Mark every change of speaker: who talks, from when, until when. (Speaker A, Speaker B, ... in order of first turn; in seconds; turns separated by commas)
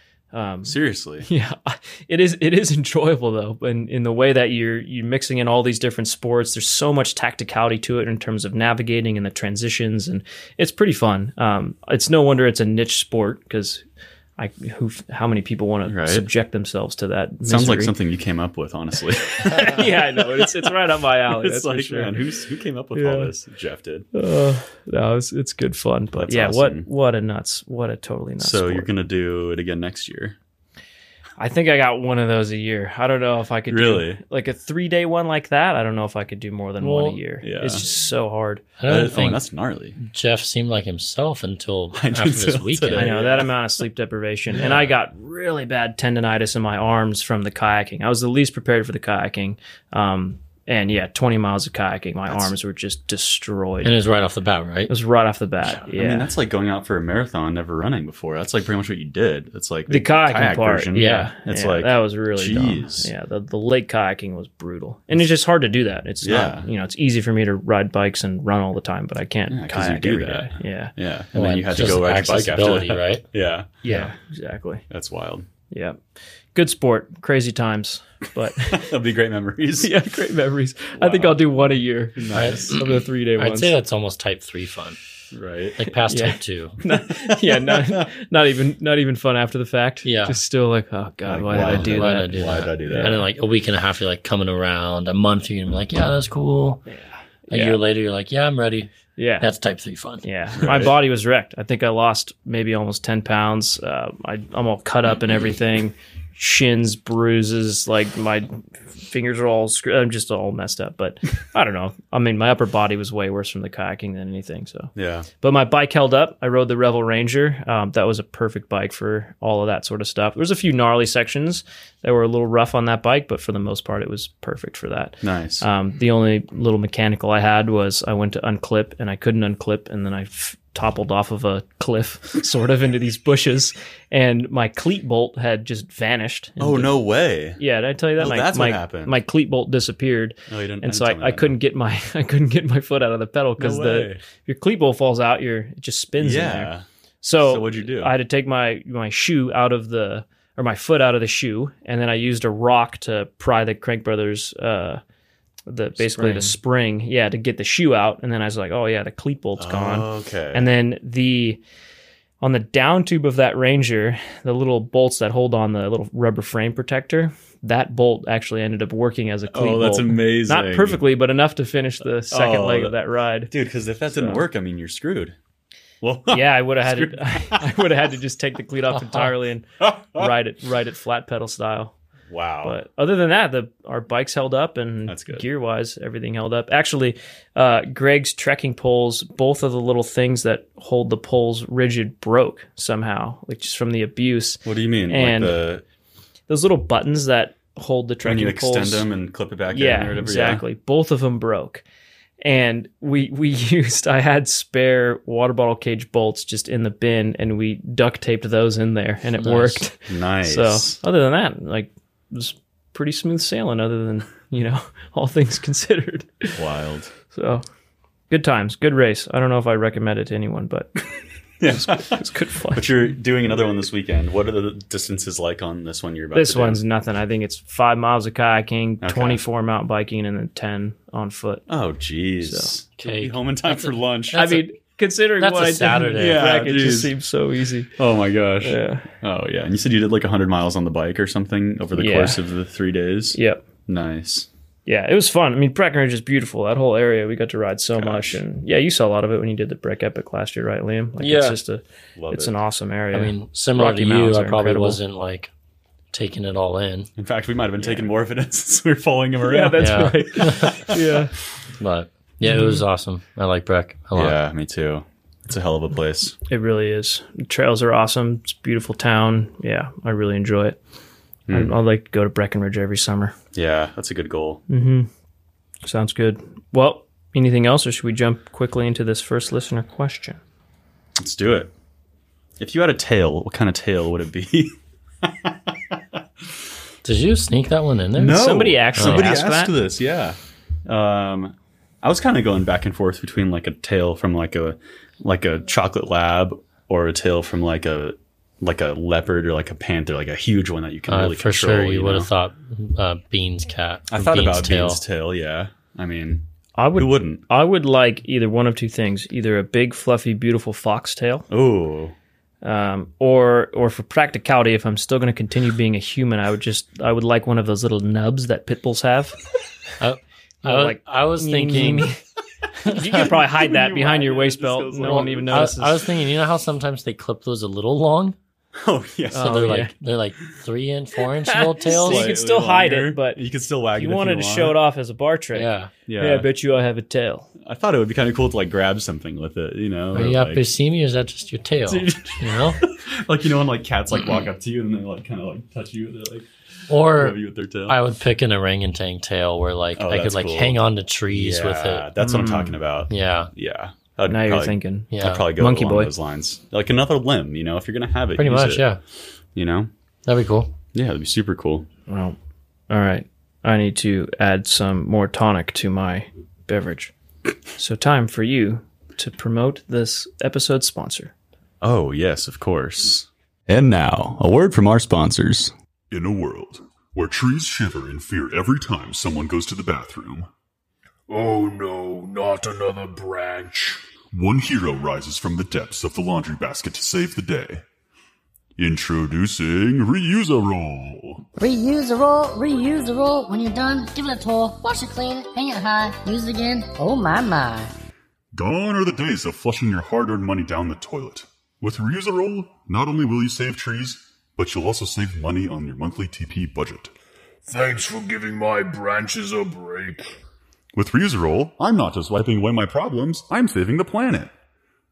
Speaker A: 0.3-13.8, Speaker B: 0.6-1.3, Speaker A: 14.4-17.9, Speaker B: 15.8-16.3, Speaker B: 17.4-20.7, Speaker A: 19.4-22.2, Speaker B: 21.3-24.1, Speaker A: 22.9-23.3, Speaker A: 24.1-28.9, Speaker B: 26.2-26.9, Speaker B: 28.4-30.4, Speaker A: 31.4-38.6, Speaker B: 33.7-34.2, Speaker C: 36.8-37.2, Speaker B: 37.4-37.8, Speaker C: 38.8-39.4, Speaker B: 38.9-40.0, Speaker C: 40.0-43.1, Speaker B: 41.9-43.5, Speaker A: 42.9-53.9, Speaker B: 44.5-44.9, Speaker B: 52.3-52.5, Speaker C: 53.8-54.9, Speaker A: 54.9-56.3, Speaker B: 55.9-63.1, Speaker A: 59.9-70.9, Speaker C: 61.0-61.3, Speaker B: 66.2-66.7, Speaker B: 69.5-73.8, Speaker C: 71.3-73.2, Speaker A: 73.8-74.8, Speaker B: 74.9-75.5, Speaker A: 75.7-76.0, Speaker A: 76.5-78.8, Speaker B: 78.7-80.0, Speaker A: 79.8-83.7, Speaker B: 81.0-81.5, Speaker B: 82.2-82.8, Speaker C: 82.3-85.0, Speaker B: 85.3-85.8, Speaker C: 85.8-86.8, Speaker A: 86.1-93.1, Speaker B: 86.9-88.1, Speaker C: 90.0-90.4, Speaker B: 91.3-93.2, Speaker C: 91.5-96.8, Speaker A: 96.9-97.8, Speaker C: 97.5-100.2, Speaker A: 99.2-99.5, Speaker A: 100.2-136.9, Speaker B: 100.6-100.9, Speaker B: 114.9-115.3, Speaker B: 125.2-125.6, Speaker B: 136.6-137.6, Speaker A: 137.6-155.0, Speaker B: 138.2-139.2, Speaker B: 140.5-141.5, Speaker B: 143.6-144.2, Speaker B: 146.2-146.8, Speaker B: 147.4-148.1, Speaker A: 155.7-161.6, Speaker C: 156.1-156.5, Speaker B: 159.6-160.7, Speaker A: 162.4-173.5, Speaker B: 169.5-171.0, Speaker B: 172.3-172.9, Speaker B: 173.5-175.3, Speaker A: 174.1-174.4, Speaker B: 176.0-177.8, Speaker A: 176.3-181.9, Speaker B: 179.8-180.3, Speaker B: 182.3-182.8, Speaker A: 182.6-195.6, Speaker B: 185.1-185.4, Speaker B: 194.6-195.8, Speaker A: 196.5-199.1, Speaker B: 198.2-200.6, Speaker A: 199.7-201.8, Speaker A: 202.4-216.6, Speaker C: 209.4-209.8, Speaker B: 210.1-211.0, Speaker B: 216.5-217.1, Speaker A: 217.3-217.6, Speaker A: 218.3-220.9, Speaker B: 221.6-226.8, Speaker A: 221.7-222.9, Speaker A: 226.3-231.6, Speaker B: 229.0-229.4, Speaker B: 231.7-234.6, Speaker A: 232.4-232.7, Speaker C: 233.0-234.6, Speaker A: 234.3-237.9, Speaker C: 235.4-236.4, Speaker B: 236.2-237.1, Speaker B: 238.0-244.5, Speaker A: 238.6-239.1, Speaker A: 241.9-242.4, Speaker A: 243.3-243.6, Speaker A: 244.8-255.0, Speaker B: 247.9-248.4, Speaker C: 251.2-251.6, Speaker B: 252.2-252.5, Speaker C: 253.1-255.5, Speaker C: 256.1-257.1, Speaker B: 257.2-261.2, Speaker A: 259.4-261.3, Speaker C: 259.8-260.8, Speaker C: 261.8-264.4, Speaker A: 262.5-262.8, Speaker B: 264.1-266.4, Speaker A: 266.5-270.8, Speaker B: 271.5-271.7, Speaker A: 271.5-273.3, Speaker B: 273.5-274.6, Speaker A: 274.7-275.1, Speaker A: 275.8-280.4, Speaker B: 281.2-281.7, Speaker B: 282.6-285.9, Speaker C: 287.0-289.3, Speaker B: 288.1-302.3, Speaker A: 288.2-289.7, Speaker C: 301.1-305.0, Speaker B: 304.1-307.4, Speaker A: 306.8-311.5, Speaker B: 311.5-312.1, Speaker A: 312.6-319.4, Speaker C: 320.0-322.1, Speaker A: 320.6-322.2, Speaker A: 322.8-326.0, Speaker C: 322.9-323.2, Speaker B: 322.9-325.9, Speaker C: 325.0-328.4, Speaker B: 328.8-329.7, Speaker A: 329.3-329.9, Speaker C: 329.3-332.3, Speaker A: 331.5-333.4, Speaker B: 331.9-334.8, Speaker A: 333.9-337.5, Speaker C: 335.5-335.9, Speaker B: 336.1-336.5, Speaker B: 337.6-340.6, Speaker C: 340.1-342.8, Speaker B: 341.9-348.0, Speaker C: 346.9-352.1, Speaker B: 349.9-350.8, Speaker B: 351.3-358.9, Speaker A: 352.2-352.8, Speaker C: 353.1-353.5, Speaker A: 354.2-356.1, Speaker C: 355.1-355.5, Speaker C: 358.4-359.0, Speaker B: 359.5-359.9, Speaker C: 360.2-360.7, Speaker B: 360.9-361.9, Speaker A: 362.1-362.4, Speaker A: 362.9-367.1, Speaker A: 367.8-371.3, Speaker B: 371.8-375.7, Speaker D: 376.1-380.5, Speaker E: 381.3-384.0, Speaker D: 384.3-387.8, Speaker D: 388.8-391.4, Speaker F: 391.6-397.9, Speaker D: 398.5-407.1, Speaker E: 407.6-410.3, Speaker D: 410.9-414.5